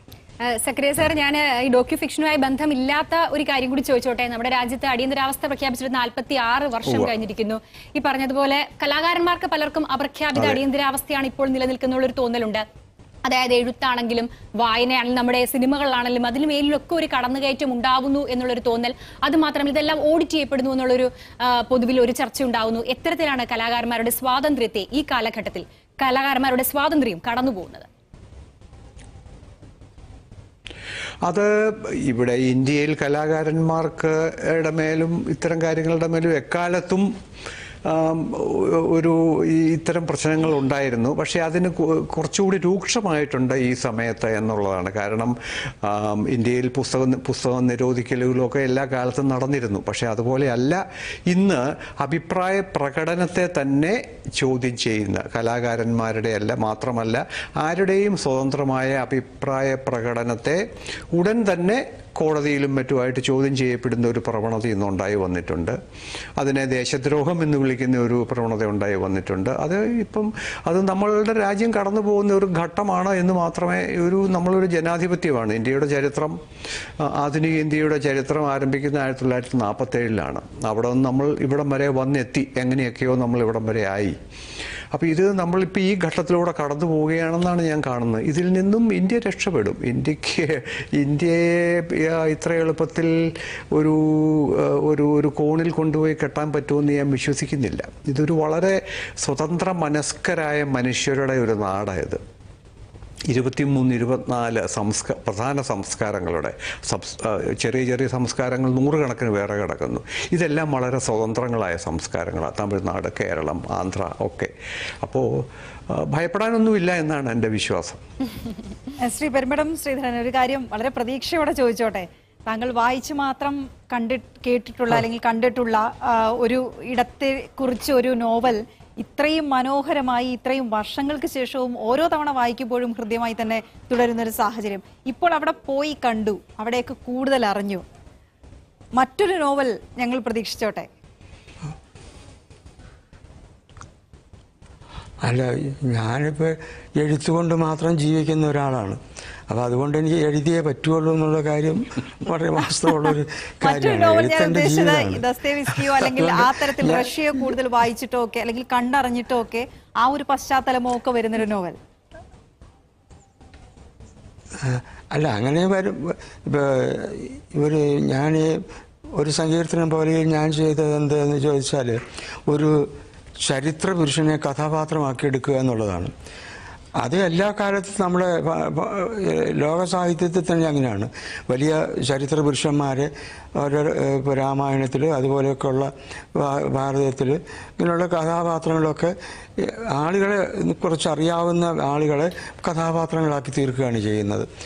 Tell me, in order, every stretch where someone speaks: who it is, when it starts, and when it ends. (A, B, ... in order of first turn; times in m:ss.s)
0:00.5-0:12.6 A
0:06.8-0:07.1 B
0:10.3-0:10.6 B
0:13.2-0:27.9 A
0:31.2-0:37.1 B
0:37.8-1:05.8 B
1:06.4-1:16.4 B
1:17.0-1:24.2 B
1:24.9-1:42.2 B
1:43.3-1:58.0 B
1:59.0-2:17.8 C
2:19.0-2:20.9 C
2:25.2-2:37.3 D
2:33.6-2:41.8 C
2:44.6-2:56.1 D
2:57.0-3:14.5 D